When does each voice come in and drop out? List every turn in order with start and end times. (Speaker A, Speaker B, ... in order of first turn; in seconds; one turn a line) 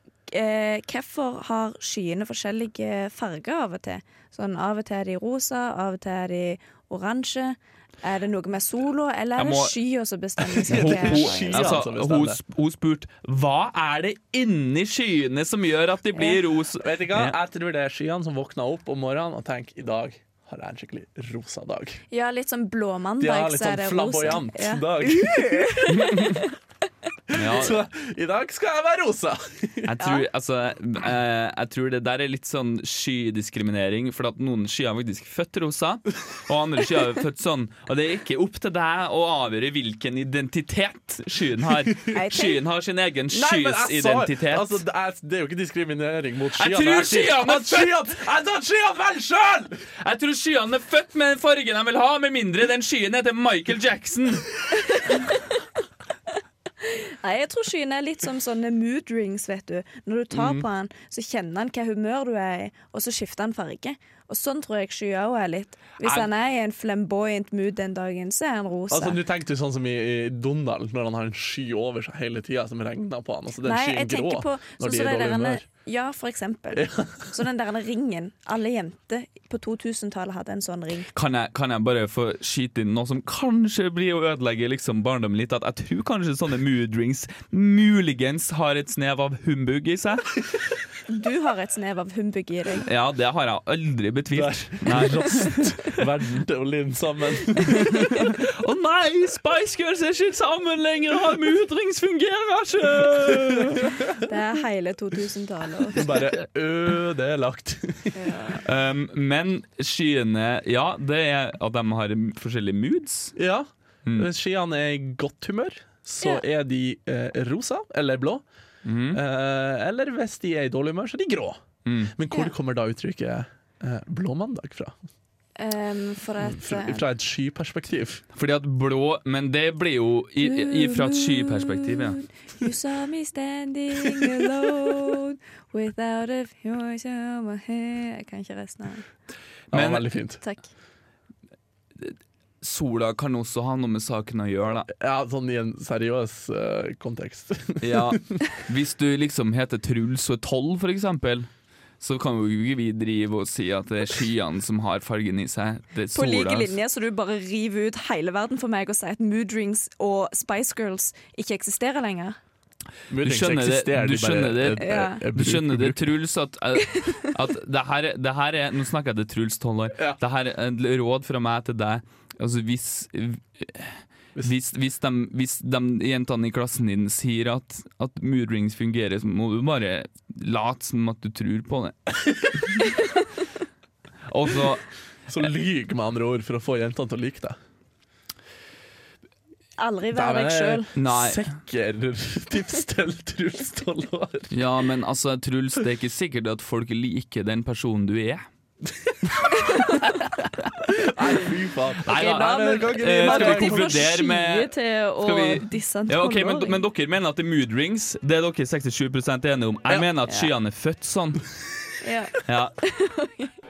Speaker A: 0.3-11.8
Speaker B: 9.4-9.7
Speaker C: 10.5-12.4
Speaker B: 10.7-17.3
Speaker C: 16.8-22.0
Speaker A: 22.1-26.5
Speaker C: 23.2-26.4
Speaker C: 27.3-29.9
Speaker B: 27.3-27.8
Speaker B: 29.8-44.8
Speaker A: 42.1-42.6
Speaker C: 43.3-49.8
Speaker B: 46.5-48.1
Speaker B: 50.0-54.6
Speaker A: 54.9-55.2
Speaker A: 56.8-69.2
Speaker C: 60.3-60.6
Speaker C: 68.9-75.6
Speaker A: 73.6-81.1
Speaker C: 76.7-77.3
Speaker B: 81.1-90.4
Speaker A: 91.1-92.9
Speaker B: 92.8-95.5
Speaker C: 94.3-98.1
Speaker B: 97.7-104.1
Speaker A: 97.8-98.2
Speaker C: 103.3-104.1
Speaker A: 104.2-106.0
Speaker C: 105.9-108.2
Speaker A: 108.1-108.6
Speaker B: 108.6-113.3
Speaker C: 113.3-118.4
Speaker B: 118.8-119.2
Speaker C: 119.1-121.6
Speaker B: 121.8-122.1
Speaker C: 122.1-124.9
Speaker A: 125.6-127.0
Speaker C: 126.4-128.2
Speaker B: 128.3-132.2
Speaker A: 130.4-139.0
Speaker C: 139.7-140.4
Speaker B: 139.7-140.1
Speaker B: 142.0-144.9
Speaker C: 144.9-148.4
Speaker B: 147.8-151.5
Speaker B: 152.0-156.7
Speaker A: 156.1-162.4
Speaker C: 163.1-166.2
Speaker B: 163.2-182.9
Speaker A: 164.8-165.2
Speaker A: 166.9-167.3
Speaker B: 184.3-184.9
Speaker C: 185.3-187.6
Speaker A: 189.8-190.9
Speaker C: 190.1-194.5
Speaker B: 190.9-191.5
Speaker B: 194.5-198.4
Speaker A: 199.5-200.1
Speaker B: 199.8-200.7
Speaker C: 200.9-204.0
Speaker B: 202.0-211.4
Speaker A: 202.1-206.8
Speaker A: 212.0-213.5
Speaker B: 212.4-212.8